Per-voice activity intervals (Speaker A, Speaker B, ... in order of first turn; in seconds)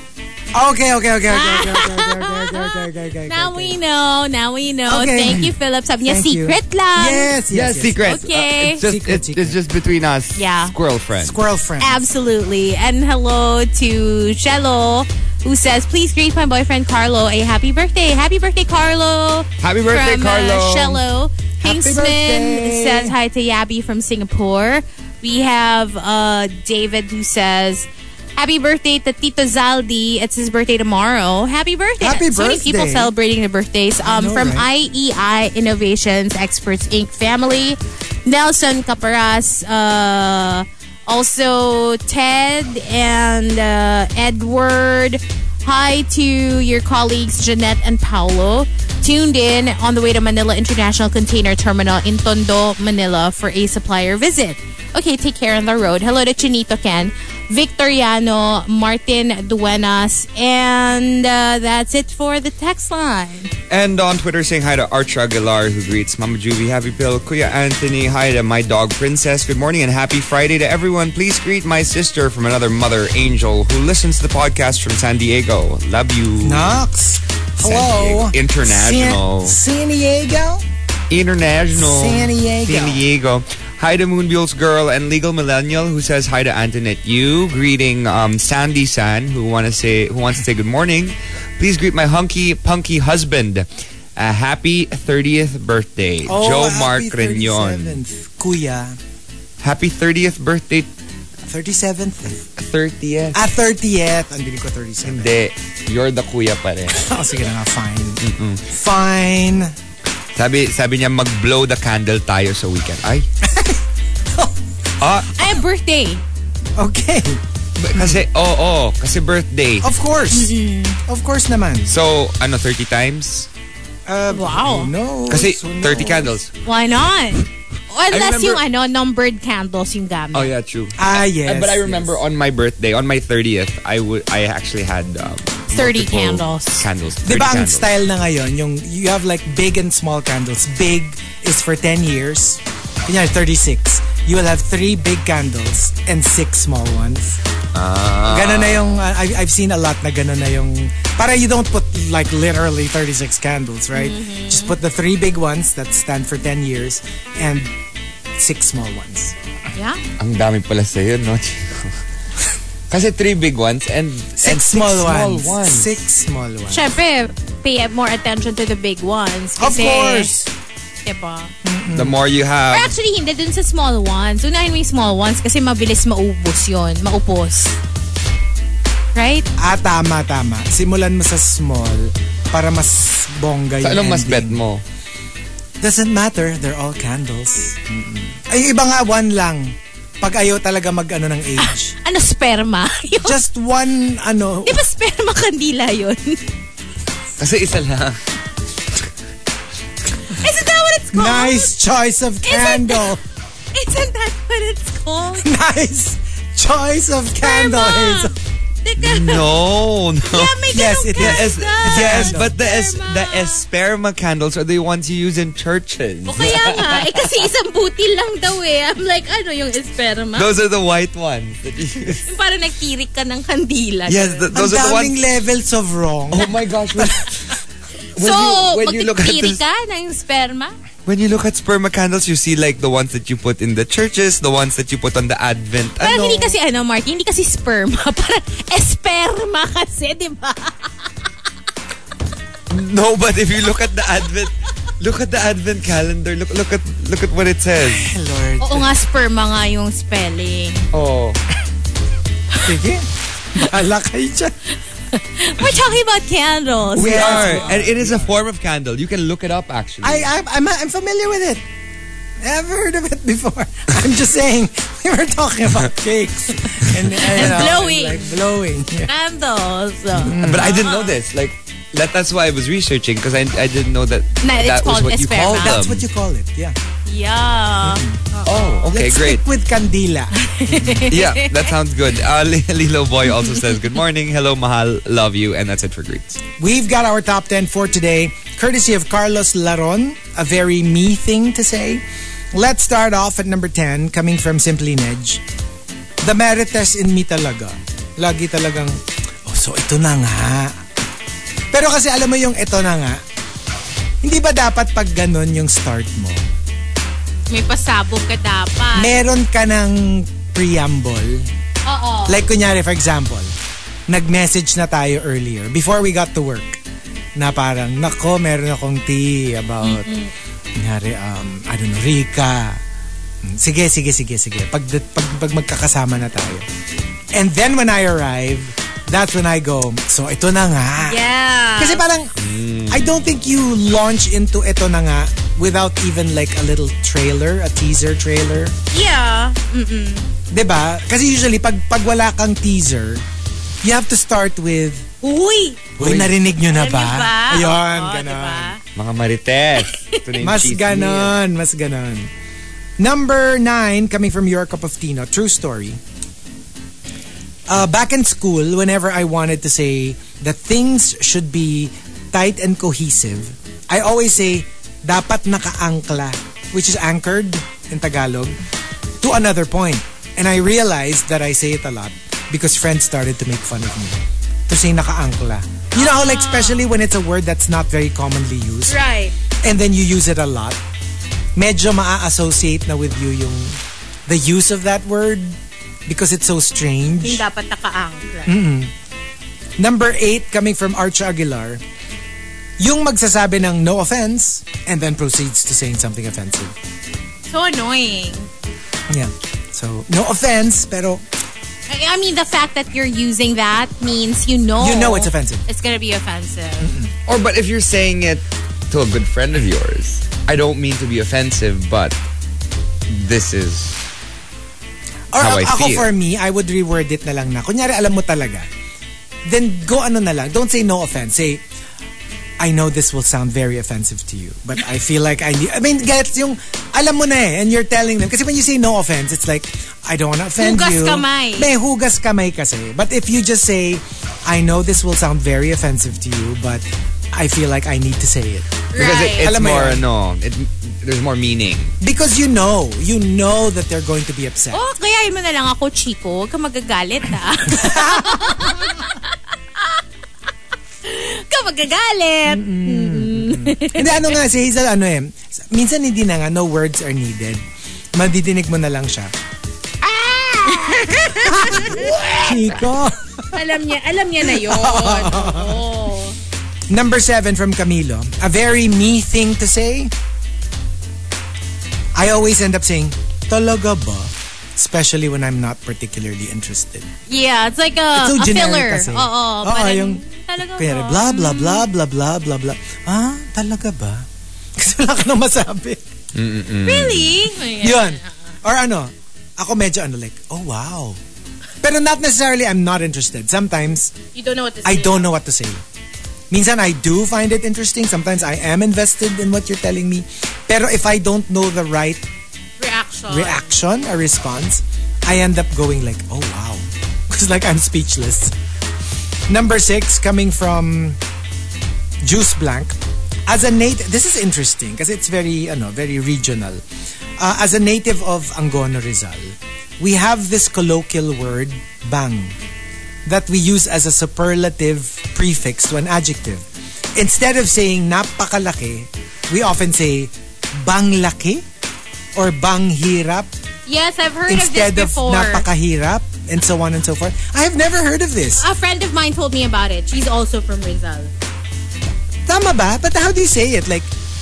Speaker A: 0.5-3.8, 4.9-5.5, 6.0-9.6, 11.2-12.0, 21.6-23.1, 32.0-33.1, 34.0-34.7, 76.4-80.6, 81.7-83.1, 96.3-99.0, 101.5-102.5, 103.3-105.3, 106.9-109.7, 113.4-113.8, 116.8-117.4, 117.9-118.2, 119.8-121.9, 124.0-126.4, 128.1-128.6, 131.0-132.2, 137.2-147.4, 148.3-157.7, 158.4-159.3, 164.4-166.9, 169.6-170.5, 171.6-172.2, 179.6-184.6, 185.8-191.9, 193.2-194.8, 201.1-203.2, 205.4-208.3, 210.7-212.6, 224.5-227.4, 247.8-248.9, 252.6-254.6, 256.9-258.4, 260.0-261.6, 262.4-269.1, 270.1-270.7, 275.6-276.8, 277.8-278.2, 278.9-281.1, 286.6-292.0, 292.5-295.4, 296.2-300.8, 301.7-303.2, 304.2-306.4, 308.9-311.5, 312.3-313.5, 314.1-316.8, 317.4-320.1, 320.8-322.8, 323.4-326.6, 327.3-331.2, 331.8-332.3, 332.9-338.8, 340.5-343.2, 343.8-345.1, 346.0-348.7, 350.4-352.3, 353.0-356.0, 357.7-368.6, 369.2-379.0, 379.6-380.8, 381.6-387.4, 388.4-388.9, 389.8-391.8, 392.8-396.7, 399.1-401.2, 404.8-405.6, 406.8-407.1, 415.3-418.7, 419.4-421.6, 422.6-440.0, 442.0-444.8, 447.7-449.0, 452.4-457.6, 458.1-459.3, 460.0-463.6, 464.4-465.8, 466.9-470.1, 472.1-477.1, 478.1-486.1, 487.8-491.2, 491.8-494.1, 494.8-495.8, 496.5-502.2, 503.3-508.5, 509.5-511.2, 512.2-513.0, 513.5-516.8, 517.4-522.5, 523.3-526.6, 527.2-531.6, 532.3-533.5, 534.5-538.7, 542.5-544.1
Speaker B: 1.3-7.3, 8.0-8.8, 10.4-10.7, 11.8-63.5, 115.3-116.2, 120.3-121.0, 124.3-124.9, 126.6-130.5, 135.7-136.9, 153.9-154.7, 159.7-160.0, 166.7-170.3, 171.1-171.5, 172.7-177.8, 179.1-179.5, 191.6-193.4, 194.7-196.4, 200.3-201.7, 202.4-203.2, 203.7-205.4, 207.4-209.6, 210.2-213.6, 216.3-220.5, 222.2-224.5, 228.2-230.7, 236.0-241.1, 248.6-250.9, 255.1-257.7, 267.1-268.5, 269.1-271.2, 274.4-275.8, 277.1-278.9, 280.4-281.7, 307.5-309.2, 311.8-312.4, 319.8-320.3, 331.0-332.0, 338.9-340.3, 345.2-345.9, 346.6-348.8, 349.8-350.3, 375.9-376.9, 378.9-379.3, 387.2-388.6, 397.5-398.5, 401.9-406.9, 430.6-431.7, 438.9-439.5, 444.7-450.0, 451.1-454.4, 460.7-462.9, 463.5-466.4, 477.3-481.9, 486.8-488.3, 494.3-495.3, 502.8-503.7, 533.9-535.7, 538.6-541.3
Speaker C: 7.5-11.3, 19.6-21.0, 63.7-76.8, 77.6-79.6, 81.1-98.0, 99.6-100.9, 102.6-103.4, 105.0-107.1, 108.2-108.6, 110.3-113.3, 115.0-115.3, 117.8-119.9, 121.9-123.5, 125.3-126.5, 128.1-128.6, 130.3-137.9, 147.7-149.1, 160.2-162.0, 162.9-166.0, 171.9-172.9, 183.8-184.8, 197.4-198.2, 209.0-217.5, 220.3-222.3, 224.1-225.2, 226.3-227.3, 228.2-229.6, 231.1-236.6, 242.7-248.1, 250.9-251.4, 256.9-260.3, 267.3-267.8, 270.4-276.1, 278.4-279.4, 281.1-286.4, 332.4-333.3, 346.0-346.3, 348.9-351.3, 407.3-412.2, 413.1-414.0, 415.3-416.1, 438.9-441.9, 486.3-487.4